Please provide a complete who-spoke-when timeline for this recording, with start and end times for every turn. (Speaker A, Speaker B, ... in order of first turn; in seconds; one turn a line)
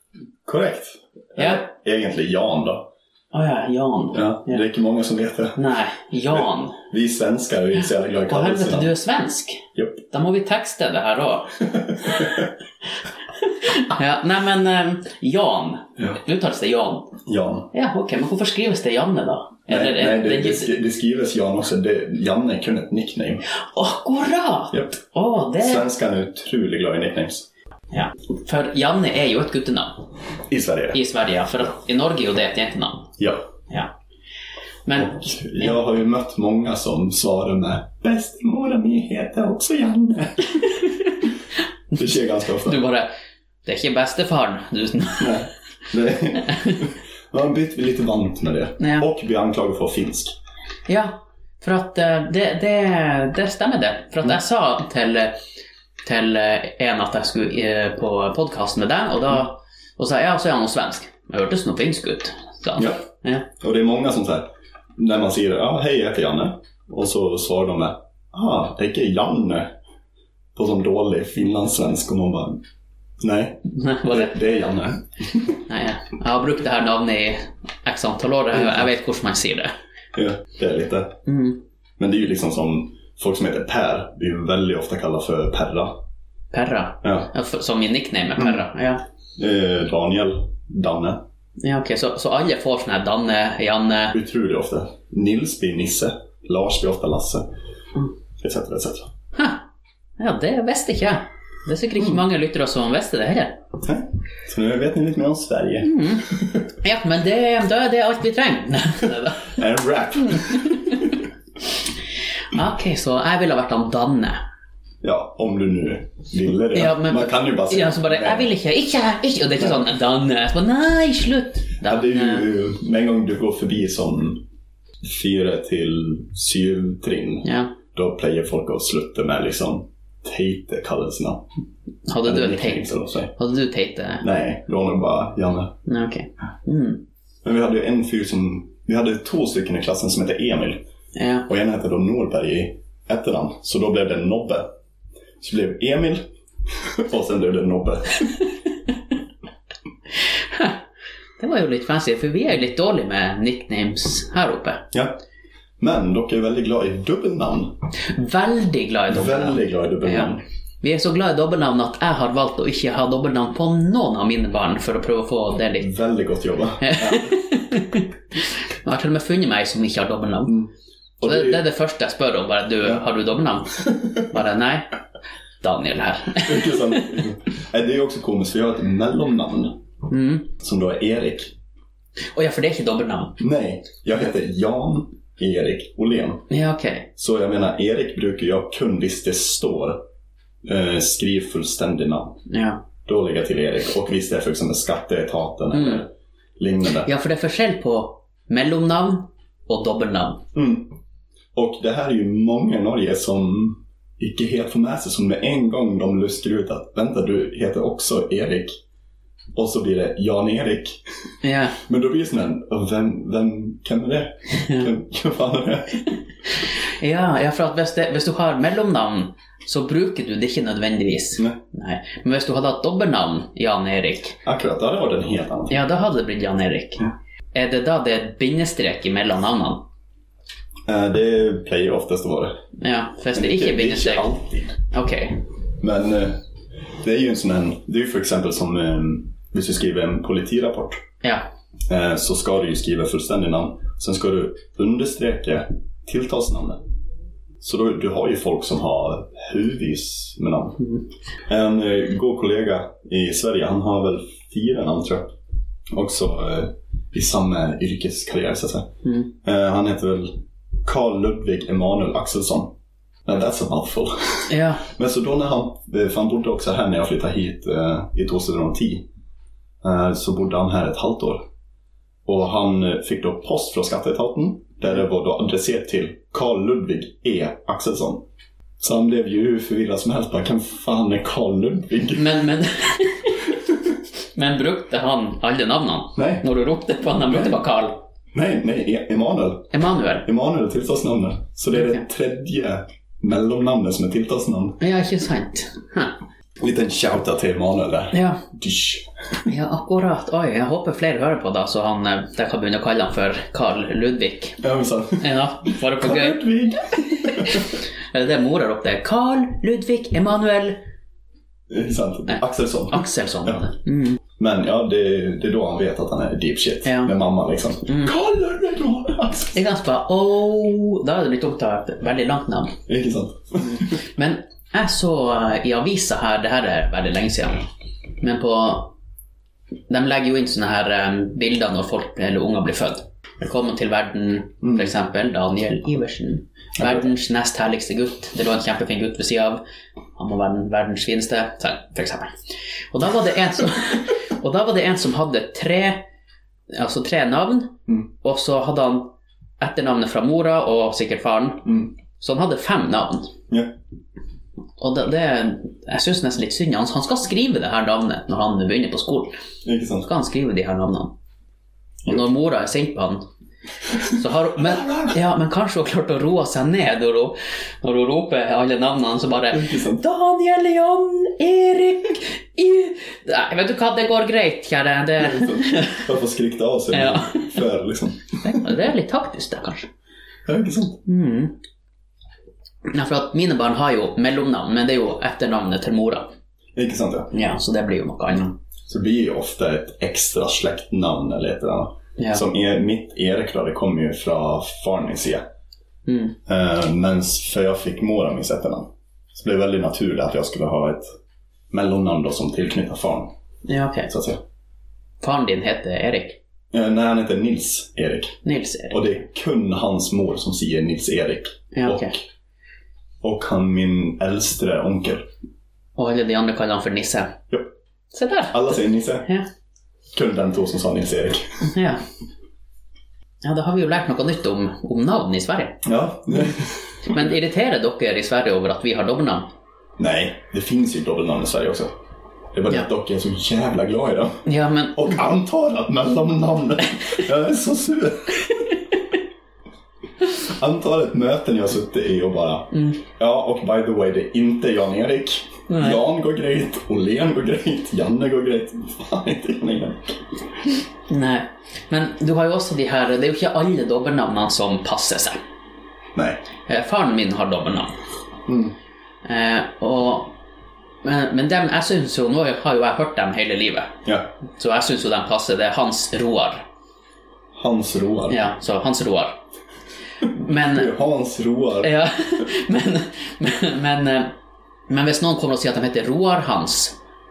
Speaker A: 0.5-2.9
Speaker B: 1.4-1.6
Speaker B: 3.3-4.6
Speaker A: 4.1-5.6
Speaker B: 5.5-6.8
Speaker A: 6.3-8.9
Speaker B: 8.3-12.4
Speaker A: 11.8-12.5
Speaker B: 13.4-17.2
Speaker A: 17.2-17.7
Speaker B: 17.7-20.7
Speaker A: 19.7-23.4
Speaker B: 23.6-25.9
Speaker A: 24.7-25.0
Speaker A: 25.6-27.5
Speaker B: 27.9-30.1
Speaker A: 30.5-31.0
Speaker B: 30.9-33.1
Speaker A: 33.2-33.4
Speaker B: 34.9-35.8
Speaker A: 35.0-40.8
Speaker B: 41.9-43.1
Speaker A: 41.9-42.8
Speaker B: 43.6-45.5
Speaker A: 45.2-50.3
Speaker B: 46.5-46.8
Speaker B: 48.8-49.1
Speaker B: 50.9-55.4
Speaker B: 56.0-63.5
Speaker A: 62.8-63.0
Speaker A: 63.5-69.7
Speaker A: 70.5-72.6
Speaker A: 73.2-75.6
Speaker B: 73.7-74.4
Speaker B: 75.6-79.7
Speaker A: 78.5-78.8
Speaker A: 80.1-81.2
Speaker B: 81.3-81.6
Speaker A: 82.0-86.0
Speaker B: 86.5-89.0
Speaker A: 87.0-87.3
Speaker A: 88.4-88.6
Speaker A: 89.4-91.2
Speaker B: 91.6-94.2
Speaker A: 94.1-97.5
Speaker A: 98.4-99.1
Speaker B: 99.3-99.6
Speaker B: 100.2-103.6
Speaker A: 103.8-106.6
Speaker B: 105.8-109.6
Speaker A: 109.5-111.1
Speaker B: 110.2-111.1
Speaker B: 112.5-114.4
Speaker A: 115.0-118.5
Speaker B: 116.7-122.5
Speaker A: 121.8-124.4
Speaker A: 125.0-131.4
Speaker B: 127.4-127.8
Speaker B: 132.1-134.2
Speaker A: 132.2-133.3
Speaker A: 134.2-135.7
Speaker B: 135.8-137.0
Speaker A: 137.4-140.8
Speaker B: 141.1-141.5
Speaker A: 141.5-144.7
Speaker A: 145.4-148.3
Speaker B: 150.5-150.8
Speaker B: 151.4-154.8
Speaker A: 154.9-155.2
Speaker A: 155.8-157.8
Speaker B: 158.0-165.9
Speaker A: 159.1-160.4
Speaker A: 165.8-167.4
Speaker B: 166.8-170.6
Speaker A: 170.5-171.6
Speaker B: 171.2-174.9
Speaker A: 173.9-174.2
Speaker B: 175.6-177.2
Speaker A: 176.4-179.8
Speaker B: 180.1-180.5
Speaker A: 180.5-181.5
Speaker B: 182.3-183.4
Speaker A: 183.4-186.5
Speaker B: 186.5-187.1
Speaker A: 187.2-190.0
Speaker A: 190.6-192.4
Speaker B: 192.5-192.8
Speaker A: 193.0-197.1
Speaker B: 195.7-196.0
Speaker B: 197.0-200.4
Speaker A: 200.5-200.9
Speaker A: 201.5-208.8
Speaker A: 209.5-211.0
Speaker B: 211.4-211.8
Speaker A: 211.7-216.1
Speaker B: 214.6-214.9
Speaker B: 216.5-224.4
Speaker A: 224.4-225.8
Speaker B: 225.7-229.8
Speaker A: 230.9-232.6
Speaker B: 232.8-234.3
Speaker A: 233.3-234.8
Speaker B: 234.9-235.4
Speaker A: 235.8-236.4
Speaker A: 237.0-241.0
Speaker B: 241.2-241.5
Speaker A: 241.9-246.8
Speaker A: 247.6-250.8
Speaker B: 250.8-251.0
Speaker A: 251.5-255.3
Speaker A: 255.9-258.9
Speaker B: 259.0-259.3
Speaker A: 259.4-262.7
Speaker A: 263.2-269.1
Speaker B: 264.5-264.9
Speaker A: 269.8-271.4
Speaker A: 272.2-278.2
Speaker A: 278.8-282.4
Speaker B: 282.1-283.5
Speaker B: 284.3-288.0
Speaker A: 286.1-286.4
Speaker A: 287.3-287.6
Speaker A: 288.3-289.7
Speaker B: 289.7-290.2
Speaker A: 290.2-294.8
Speaker B: 291.7-292.0
Speaker B: 294.8-296.1
Speaker A: 296.6-299.1
Speaker B: 298.1-298.4
Speaker B: 299.4-304.6
Speaker A: 304.6-307.7
Speaker B: 305.2-306.4
Speaker B: 306.9-310.8
Speaker A: 311.7-313.6
Speaker B: 312.3-314.2
Speaker A: 314.4-319.6
Speaker B: 316.8-317.1
Speaker B: 317.9-318.1
Speaker B: 319.5-322.8
Speaker A: 322.9-324.0
Speaker B: 323.6-327.6
Speaker B: 328.2-328.9
Speaker B: 329.9-339.6
Speaker A: 334.6-334.9
Speaker A: 336.8-337.0
Speaker B: 340.1-342.4
Speaker B: 342.9-346.0
Speaker B: 346.7-353.4
Speaker A: 351.6-351.9
Speaker B: 354.8-359.3
Speaker A: 359.6-360.1
Speaker B: 360.0-361.1
Speaker B: 362.1-363.2
Speaker B: 364.0-376.1
Speaker A: 364.1-365.1
Speaker A: 369.5-370.0
Speaker A: 375.2-378.7
Speaker B: 376.9-377.6
Speaker B: 378.4-379.9
Speaker A: 380.4-381.0
Speaker B: 381.1-381.6
Speaker B: 382.9-386.3
Speaker A: 386.7-387.3
Speaker B: 387.3-388.5
Speaker A: 388.9-395.4
Speaker B: 396.1-396.4
Speaker A: 396.5-401.0
Speaker A: 401.7-403.3
Speaker B: 403.6-404.1
Speaker A: 404.1-404.4
Speaker B: 405.2-406.4
Speaker A: 406.7-412.2
Speaker B: 408.4-409.1
Speaker B: 411.7-412.1
Speaker A: 413.2-415.2
Speaker B: 415.9-417.4
Speaker B: 418.1-419.4
Speaker A: 418.5-419.3
Speaker A: 420.1-421.6
Speaker B: 421.6-422.0
Speaker B: 423.4-425.8
Speaker A: 425.8-427.3
Speaker B: 427.0-429.5
Speaker A: 430.0-431.9
Speaker A: 432.5-438.6
Speaker B: 434.4-435.1
Speaker A: 440.4-450.3
Speaker B: 442.7-443.0
Speaker B: 445.7-446.0
Speaker B: 451.1-455.4
Speaker A: 456.1-456.4
Speaker B: 456.6-457.9
Speaker A: 458.5-458.7
Speaker B: 459.2-460.4
Speaker B: 461.0-464.0
Speaker A: 464.0-464.3
Speaker B: 464.6-466.6
Speaker A: 467.5-468.4
Speaker B: 468.3-469.4
Speaker B: 470.2-470.9
Speaker A: 470.6-471.9
Speaker B: 471.8-474.3
Speaker B: 474.9-476.9